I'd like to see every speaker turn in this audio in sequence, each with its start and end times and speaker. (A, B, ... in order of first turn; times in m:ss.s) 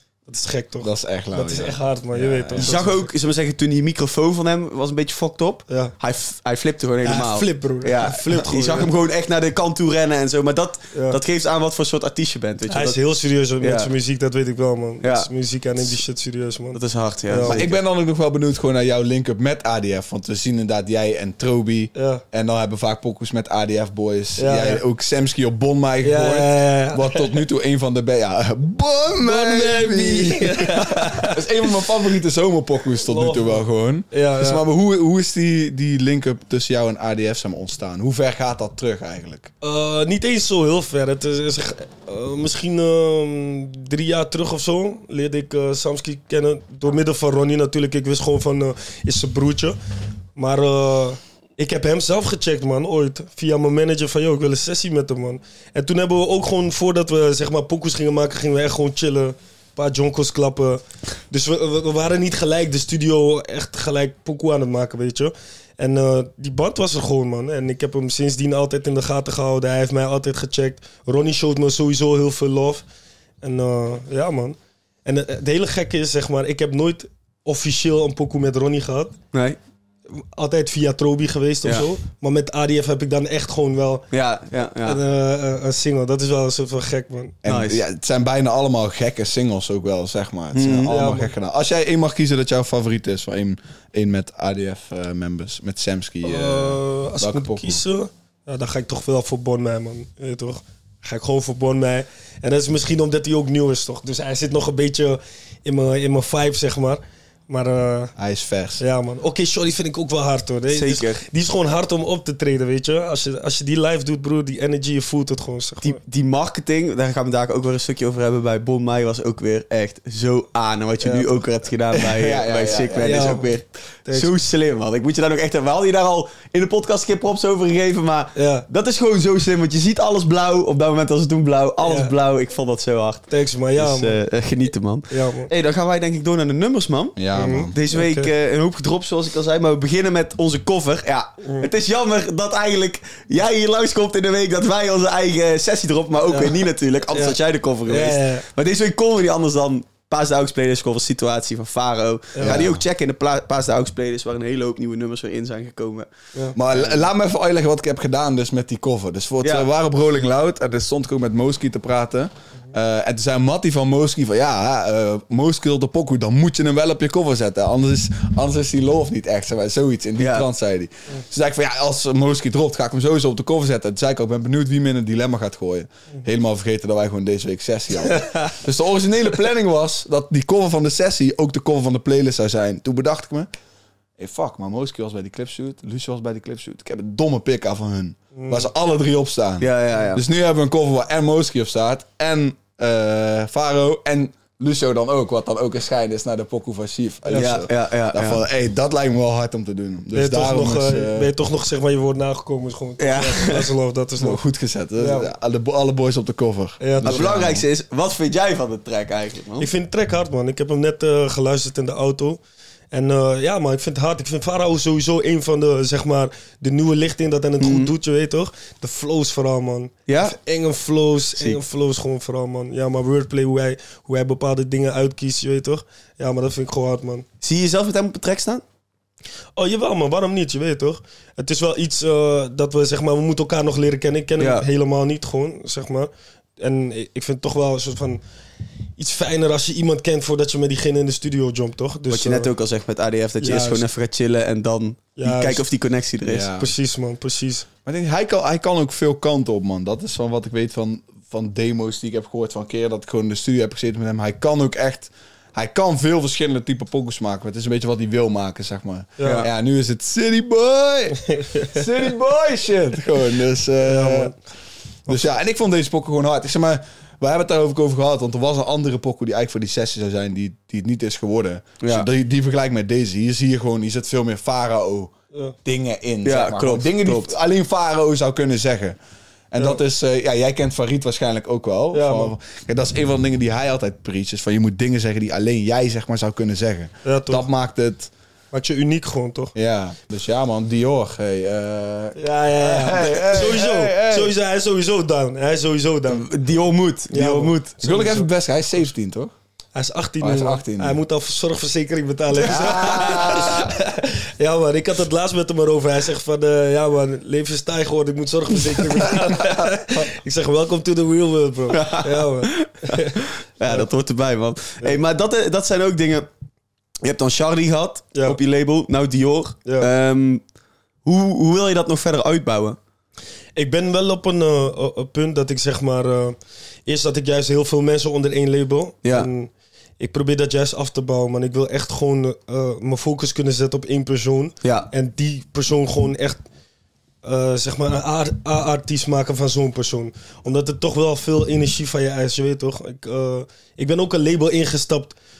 0:00.3-0:03.1 A
0:00.8-0:02.9 B
0:02.6-0:13.0 C
0:05.7-0:05.9 A
0:07.0-0:08.9 A
0:10.9-0:11.2 A
0:12.7-0:17.6 A
0:13.6-0:13.9 C
0:15.0-0:15.3 C
0:16.7-0:17.8 C
0:17.4-0:39.5 B
0:21.9-0:22.2 A
0:24.4-0:24.8 A
0:26.0-0:27.4 A
0:29.2-0:31.4 A
0:33.0-0:34.6 A
0:39.6-0:49.8 A
0:50.4-1:12.8 A
1:13.4-1:19.2 A
1:19.3-1:19.6 C
1:20.2-1:24.0 A
1:24.1-1:25.0 C
1:24.8-1:27.4 A
1:27.4-1:37.8 B
1:27.4-1:27.8 C
1:30.5-1:30.9 C
1:30.9-1:31.3 A
1:36.2-1:48.1 A
1:48.2-1:48.8 B
1:48.8-1:56.0 A
1:50.7-1:51.2 C
1:55.8-2:17.2 C
2:01.9-2:03.4 B
2:03.0-2:03.5 A
2:04.0-2:04.3 A
2:08.3-2:08.6 A
2:11.8-2:12.1 A
2:13.3-2:14.2 A
2:15.1-2:15.5 A
2:17.2-2:17.7 B
2:17.3-2:18.3 A
2:17.7-2:36.1 C
2:21.4-2:21.7 A
2:26.3-2:26.6 A
2:27.1-2:28.4 A
2:32.3-2:32.6 A
2:32.4-2:32.8 B
2:36.5-3:03.5 B
2:39.4-2:39.7 C
2:50.2-2:50.4 C
2:58.1-2:58.5 A
3:04.2-3:21.3 B
3:08.3-3:08.7 A
3:09.6-3:10.2 C
3:17.3-3:17.6 A
3:17.3-3:18.4 C
3:20.1-3:24.4 A
3:23.0-3:23.7 C
3:24.2-3:27.6 B
3:25.0-3:25.3 A
3:26.8-3:27.3 A
3:27.0-3:29.7 C
3:29.6-3:32.4 A
3:32.9-3:47.2 A
3:37.6-3:37.9 C
3:40.1-3:40.3 C
3:47.4-3:48.6 C
3:49.6-3:58.2 A
3:54.4-3:54.6 C
3:59.0-4:02.5 A
4:02.1-4:06.5 C
4:03.4-4:03.8 A
4:05.2-4:05.6 A
4:06.2-4:06.7 B
4:06.6-4:07.7 A
4:07.8-4:24.3 B
4:19.2-4:19.5 A
4:19.2-4:19.5 C
4:21.3-4:21.8 A
4:23.8-4:24.3 A
4:25.1-4:25.3 A
4:25.1-4:35.1 B
4:31.8-4:32.1 C
4:35.6-4:39.0 B
4:36.2-4:37.3 C
4:39.5-4:48.1 B
4:41.9-4:42.3 A
4:47.0-4:47.4 A
4:48.5-4:49.5 A
4:49.5-4:54.3 B
4:52.2-4:56.3 A
4:56.1-4:57.7 C
4:57.1-4:58.3 A
4:57.8-4:59.3 B
4:59.7-5:13.9 A
5:00.2-5:01.0 B
5:02.4-5:03.6 C
5:02.4-5:03.7 B
5:09.0-5:10.0 B
5:11.7-5:16.3 C
5:17.0-5:20.4 C
5:21.0-5:22.8 C
5:23.6-5:36.4 A
5:29.0-5:29.3 C
5:34.6-5:34.9 C
5:37.2-5:45.1 A